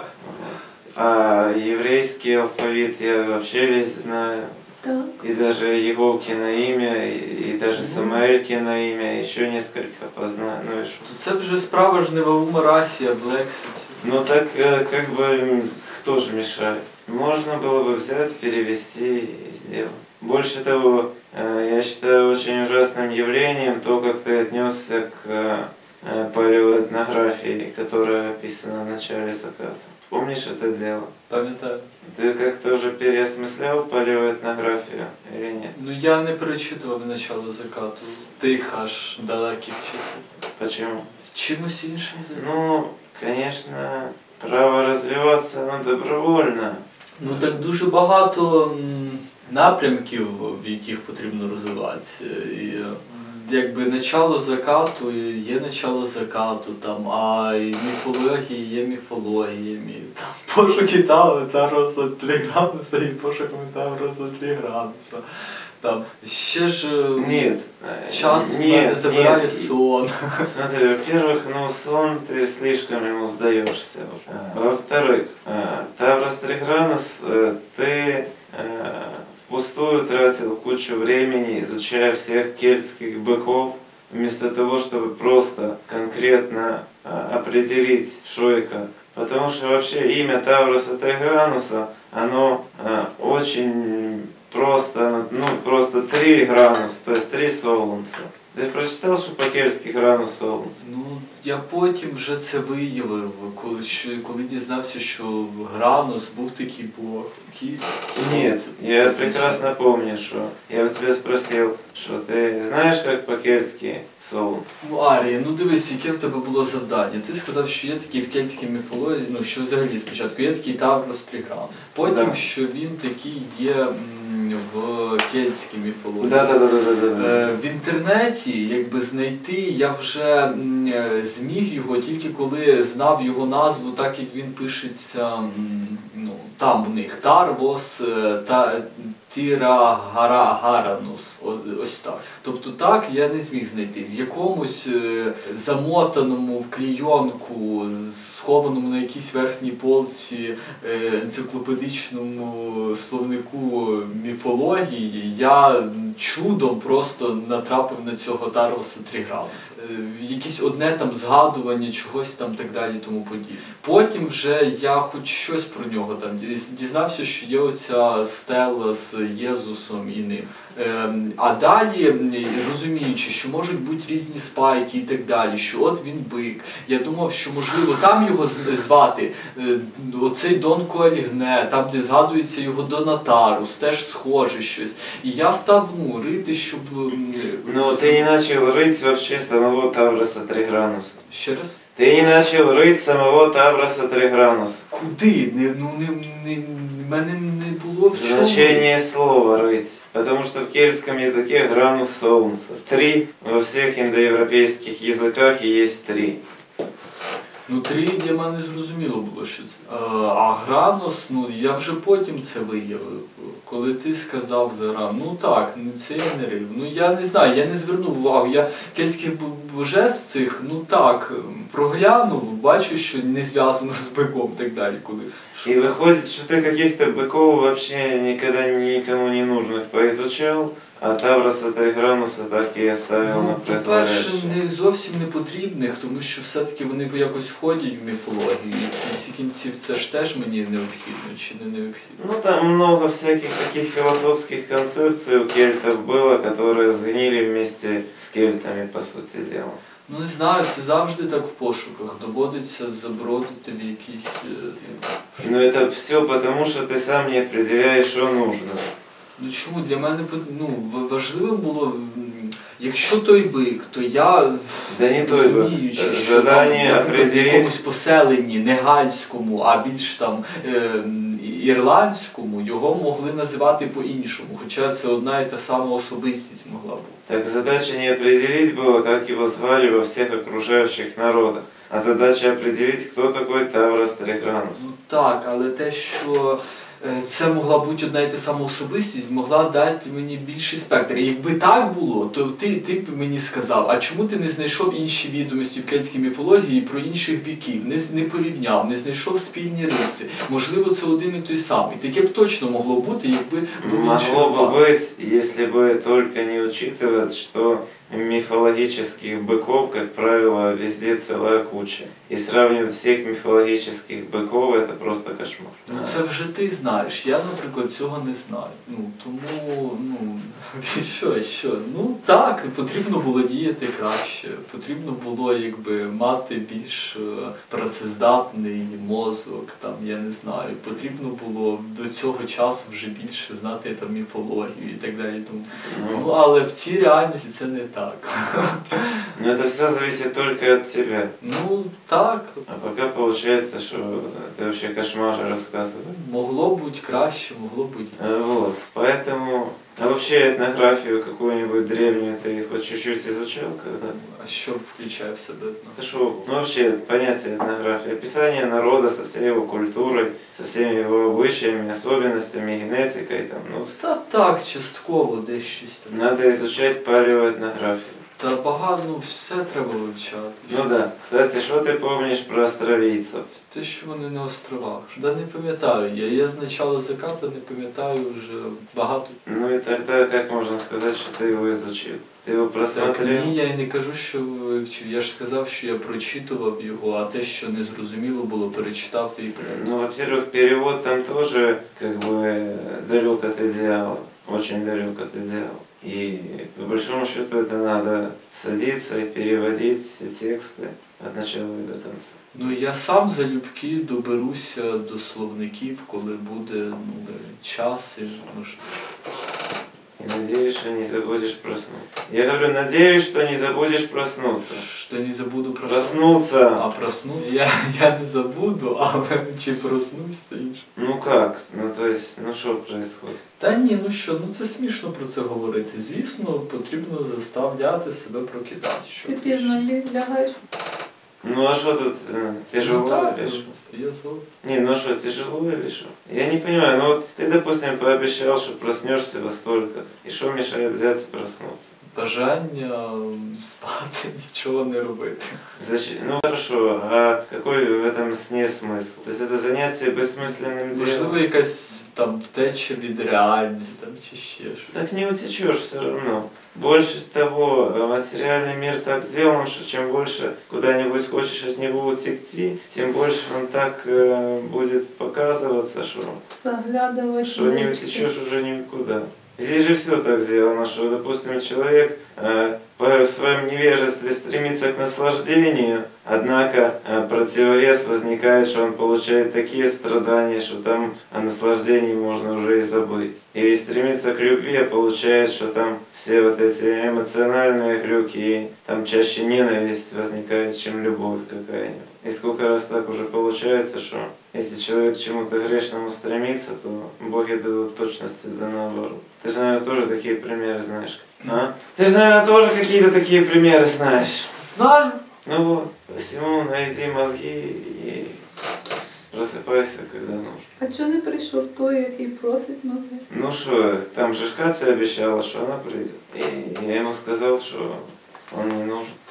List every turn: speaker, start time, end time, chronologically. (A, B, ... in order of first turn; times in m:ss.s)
0:00.2-0:04.6 A
0:04.8-0:05.2 B
0:05.2-0:11.1 A
0:07.7-0:08.2 C
0:11.0-0:14.0 C
0:14.0-0:31.1 A
0:31.3-0:31.9 C
0:32.0-0:35.8 A
0:35.7-0:40.2 C
0:40.6-0:41.1 A
0:41.2-0:42.5 C
0:42.3-0:47.6 A
0:47.2-1:07.6 C
1:07.2-1:09.7 A
1:08.1-1:10.5 C
1:10.4-1:40.8 A
1:40.8-1:49.7 C
1:48.2-1:54.7 A
1:54.8-2:06.6 C
2:02.0-2:02.4 A
2:06.2-2:07.5 A
2:07.2-3:08.3 C
3:07.6-3:11.2 A
3:11.3-3:11.8 C
3:12.0-3:14.8 A
3:14.9-3:18.9 C
3:18.1-3:26.4 A
3:27.7-3:45.9 C
3:45.6-3:54.6 A
3:53.2-4:02.2 C
4:02.2-4:09.8 A
4:10.1-4:15.5 C
4:15.4-4:18.9 A
4:19.4-4:37.2 C
4:24.9-4:27.8 A
4:37.3-4:44.8 A
4:44.8-5:04.8 C
5:03.8-5:16.2 A
5:15.9-5:39.3 C
5:35.8-5:36.3 A
5:39.4-5:41.3 A
5:41.4-5:42.6 C
5:42.7-5:46.2 A
5:46.1-5:48.2 C
5:48.2-5:54.2 A
5:54.0-5:56.0 C
5:55.9-6:04.1 A
6:04.0-6:06.2 C
6:06.1-6:08.2 A
6:08.4-6:10.9 C
6:10.7-6:13.5 A
6:13.7-6:19.4 C
6:19.5-6:23.5 A
6:22.9-6:29.8 C
6:29.6-6:42.4 A
6:42.5-6:49.0 C
6:50.2-6:54.8 A
6:54.7-7:00.8 C
6:55.9-6:56.8 A
7:01.0-7:03.4 A
7:03.6-7:09.8 C
7:09.2-7:10.6 B
7:11.4-7:13.7 A
7:12.8-7:14.4 C
7:14.6-7:21.9 A
7:22.1-7:25.6 C
7:25.8-7:31.4 A
7:30.9-7:34.9 C
7:34.9-7:46.4 A
7:46.6-7:48.3 B
7:47.4-8:24.5 A
8:24.6-8:25.2 C
8:25.4-8:28.4 A
8:29.3-8:30.7 A
8:30.8-8:33.2 B
8:33.3-8:39.2 A